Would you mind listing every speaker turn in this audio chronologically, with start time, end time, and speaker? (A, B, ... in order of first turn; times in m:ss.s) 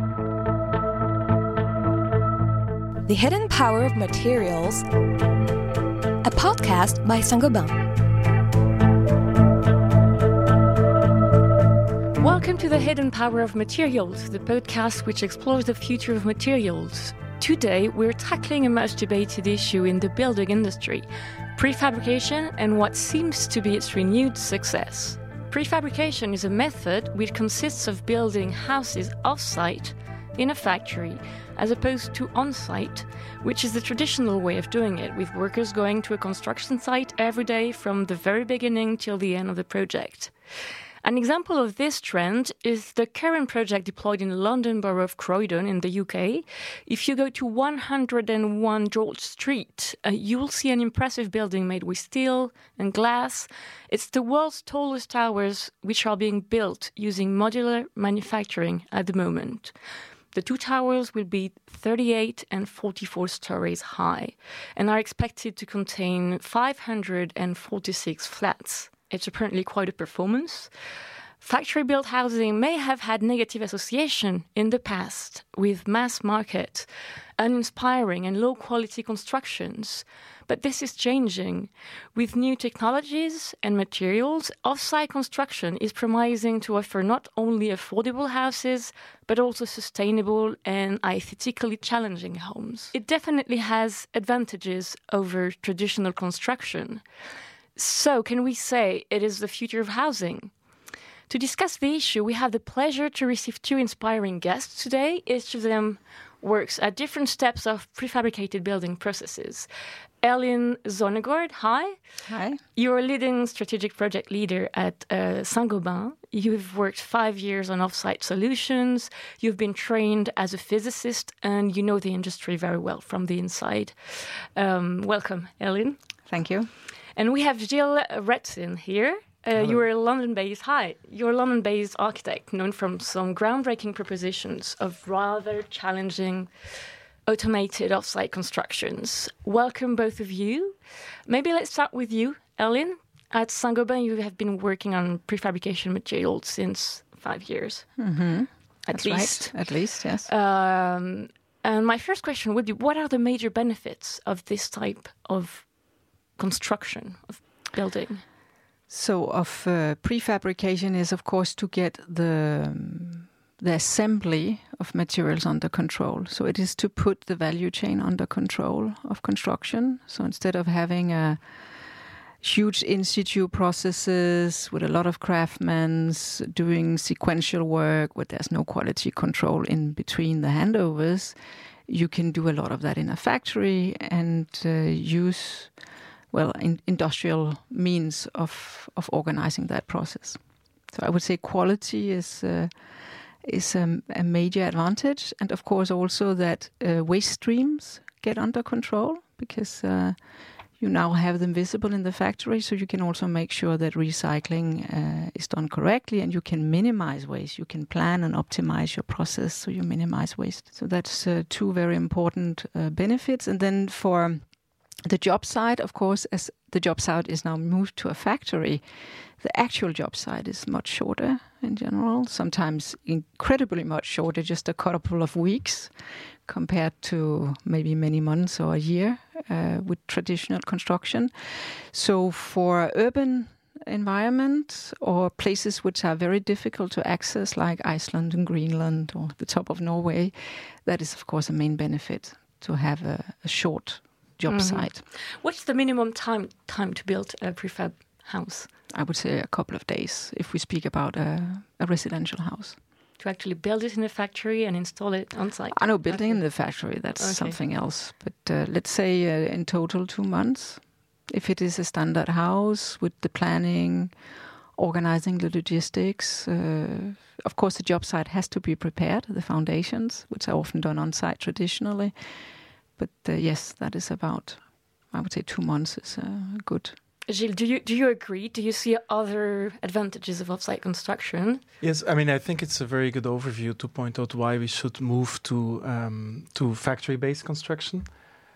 0:03.0-0:04.8 A
0:06.2-0:07.8 A
0:12.2-0:59.7 B
1:00.3-1:10.7 B
1:11.4-1:37.0 B
1:37.7-1:40.5 B
1:41.3-1:49.7 B
1:50.2-2:06.0 B
1:52.2-1:52.6 C
2:06.3-2:06.7 C
2:07.1-2:28.1 B
2:28.0-2:30.3 C
2:28.8-2:38.3 B
2:38.9-3:05.8 C
3:06.3-3:34.4 C
3:35.0-3:45.9 C
3:46.4-4:05.0 C
4:04.5-4:08.7 B
4:08.9-4:12.8 C
4:13.2-4:17.6 B
4:15.7-4:24.1 C
4:24.8-4:32.1 C
4:33.0-4:37.0 C
4:37.2-4:41.6 B
4:41.8-4:48.2 D